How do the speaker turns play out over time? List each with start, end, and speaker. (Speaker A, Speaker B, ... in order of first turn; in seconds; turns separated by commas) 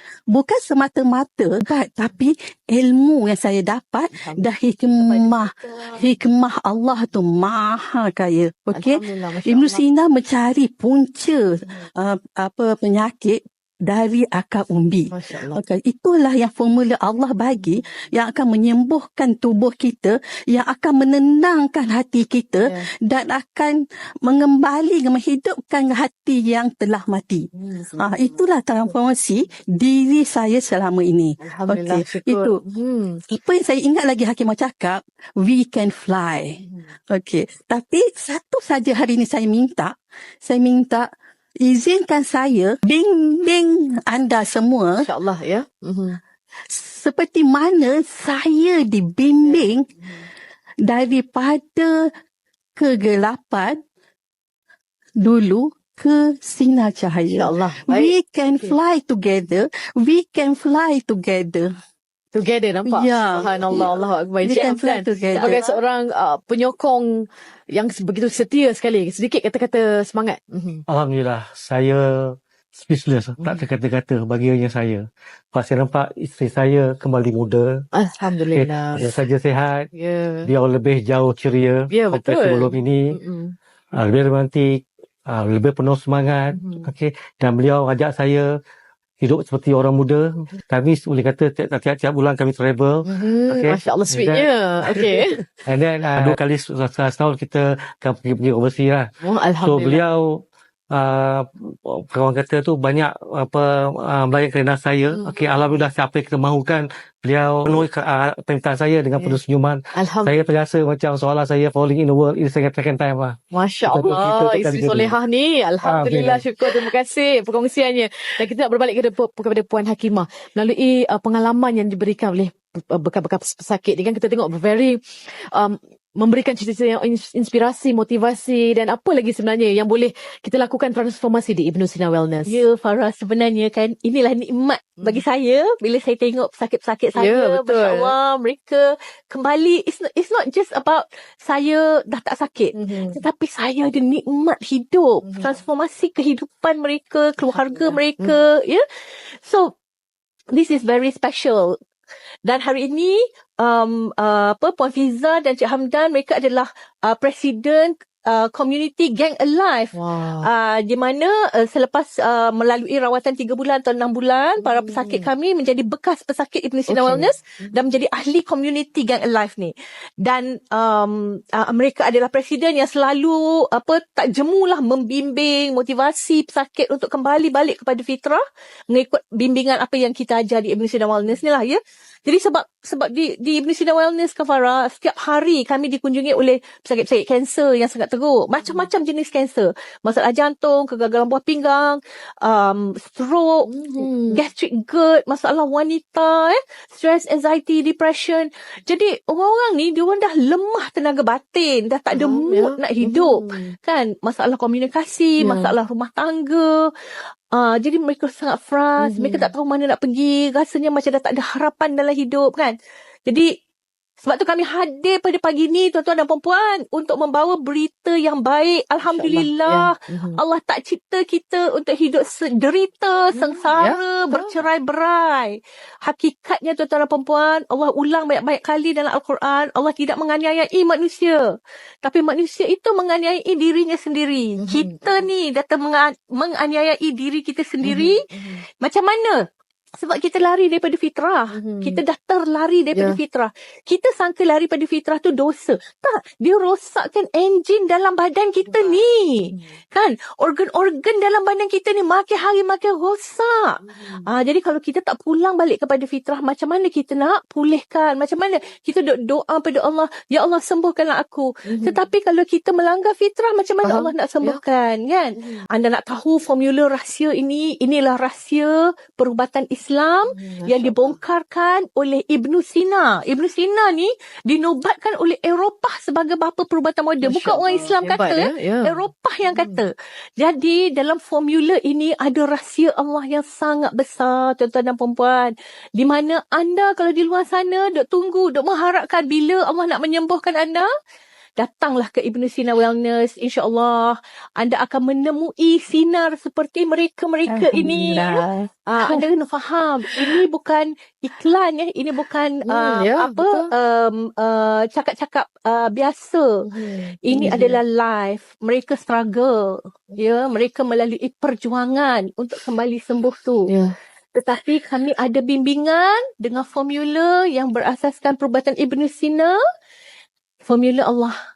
Speaker A: 0.3-32.6, Speaker B: 4.1-4.5, Speaker C: 5.0-6.0, Speaker B: 8.7-9.8, Speaker B: 15.1-15.6, Speaker B: 27.5-28.4, Speaker B: 31.4-33.2, Speaker A: 33.3-41.1, Speaker A: 41.6-45.0, Speaker B: 45.0-46.2, Speaker A: 46.7-49.9, Speaker B: 49.4-50.3, Speaker A: 50.8-52.1, Speaker A: 52.8-53.8, Speaker A: 55.2-61.7, Speaker B: 57.3-58.8, Speaker B: 62.3-70.8, Speaker A: 62.8-65.6, Speaker C: 65.3-65.7, Speaker D: 70.9-77.9, Speaker B: 73.4-73.7, Speaker B: 77.9-79.1, Speaker D: 78.5-79.9, Speaker B: 79.9-80.5, Speaker D: 80.4-83.2, Speaker B: 81.9-83.5, Speaker D: 84.0-88.5, Speaker B: 86.5-86.9, Speaker D: 89.2-94.9, Speaker B: 93.0-95.4, Speaker D: 95.7-115.2, Speaker B: 99.2-100.0, Speaker B: 105.1-105.5, Speaker B: 109.9-110.4, Speaker B: 113.5-132.6, Speaker D: 115.8-116.5, Speaker C: 132.5-149.7, Speaker B: 137.1-138.1, Speaker B: 142.7-143.2, Speaker B: 145.2-145.5, Speaker B: 147.5-148.4, Speaker C: 150.5-151.8, Speaker C: 152.4-193.7, Speaker B: 159.9-160.5, Speaker B: 164.6-165.3, Speaker B: 166.9-167.7, Speaker B: 193.7-194.4, Speaker C: 194.3-206.9, Speaker B: 202.1-203.7, Speaker B: 205.4-205.7, Speaker C: 207.5-212.7, Speaker B: 209.0-209.5, Speaker C: 214.2-231.4, Speaker B: 219.0-220.4, Speaker B: 223.3-224.6, Speaker C: 232.0-238.2, Speaker B: 234.6-235.0, Speaker B: 237.8-238.6, Speaker C: 238.8-239.4, Speaker C: 240.0-290.9, Speaker B: 241.5-242.0, Speaker B: 242.9-243.2, Speaker B: 248.7-249.7, Speaker B: 253.8-254.3, Speaker B: 261.6-262.0, Speaker B: 263.8-264.6, Speaker B: 265.4-265.6, Speaker B: 270.3-271.2, Speaker B: 277.2-279.8, Speaker C: 291.6-306.5, Speaker A: 297.5-299.2, Speaker B: 302.6-303.7, Speaker B: 306.7-307.8, Speaker C: 307.2-313.7, Speaker B: 313.7-313.9, Speaker C: 314.3-319.6, Speaker C: 320.6-321.3